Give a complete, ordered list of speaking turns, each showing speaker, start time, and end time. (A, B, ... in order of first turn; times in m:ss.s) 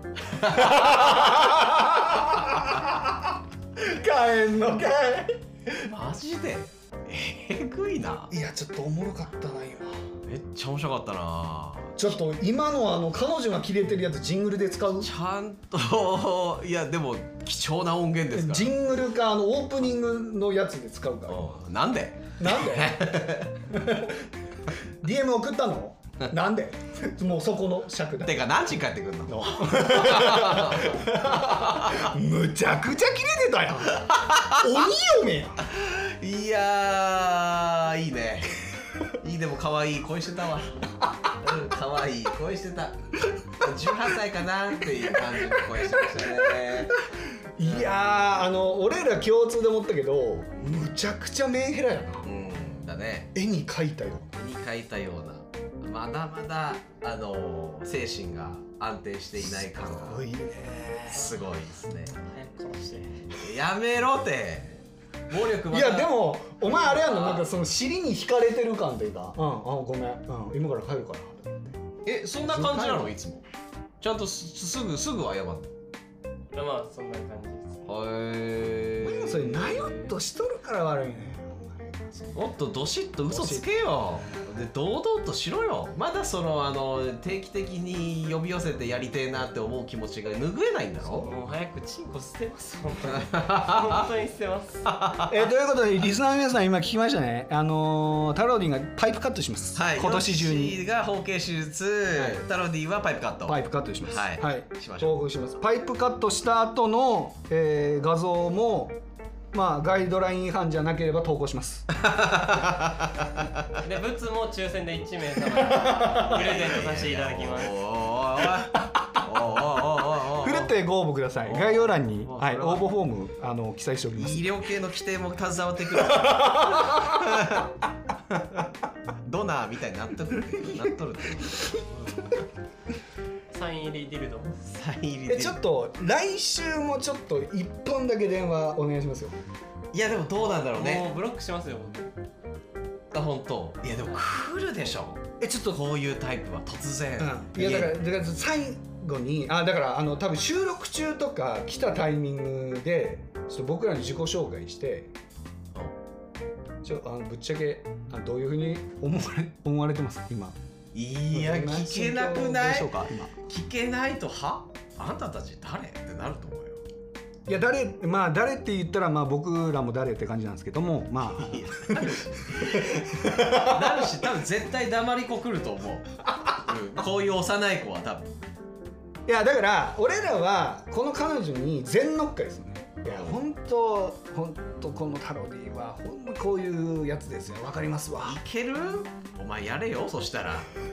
0:00.3-0:02.1 A
0:00.4-0:05.8 B
0:05.8-0:08.3 A
0:08.3-0:10.1 B
0:10.2-0:12.2 A
0:12.0-0:15.1 B
0:15.0-0:18.7 A
0:18.3-0:21.6 B
0:21.3-0:23.8 A
0:22.4-0:23.0 B
0:23.7-0:24.3 B
0:25.0-0:28.5 B
0:28.2-0:32.1 A
0:29.3-0:35.7 B
0:33.9-0:34.9 A
0:35.7-0:47.0 A
0:45.3-0:52.3 B
0:47.6-0:48.1 A
0:52.2-0:53.3 A
0:53.3-0:54.3 B
0:54.3-1:02.1 A
0:59.5-1:01.3 B
1:02.1-1:03.3 C
1:03.3-1:07.5 A
1:05.7-1:11.8 B
1:12.0-1:13.4 A
1:12.5-1:13.1 B
1:14.0-1:15.7 A
1:16.5-1:17.8 C
1:17.9-1:20.0 A
1:19.0-1:22.4 B
1:22.3-1:31.3 A
1:23.3-1:23.7 B
1:31.0-1:34.9 C
1:33.1-1:33.9 A
1:34.8-1:35.4 A
1:35.3-1:40.8 B
1:39.7-1:45.1 A
1:42.1-1:42.4 B
1:43.5-1:49.0 B
1:49.5-1:51.9 B
1:52.0-1:53.4 A
1:53.8-1:57.8 C
1:55.7-2:00.7 A
2:00.4-2:04.5 B
2:01.4-2:02.8 A
2:04.2-2:07.8 A
2:06.1-2:07.4 B
2:08.3-2:08.7 A
2:09.2-2:11.8 A
2:13.5-2:14.6 C
2:14.7-2:15.6 A
2:15.3-2:19.4 B
2:19.9-2:21.1 A
2:20.4-2:22.1 C
2:23.1-2:28.0 A
2:25.4-2:25.8 B
2:27.2-2:35.1 B
2:36.8-2:40.6 B
2:40.9-2:46.8 A
2:41.3-2:43.3 B
2:47.4-2:54.1 B
2:51.3-2:58.4 A
2:59.2-3:08.4 B
3:03.0-3:03.4 A
3:08.2-3:10.7 A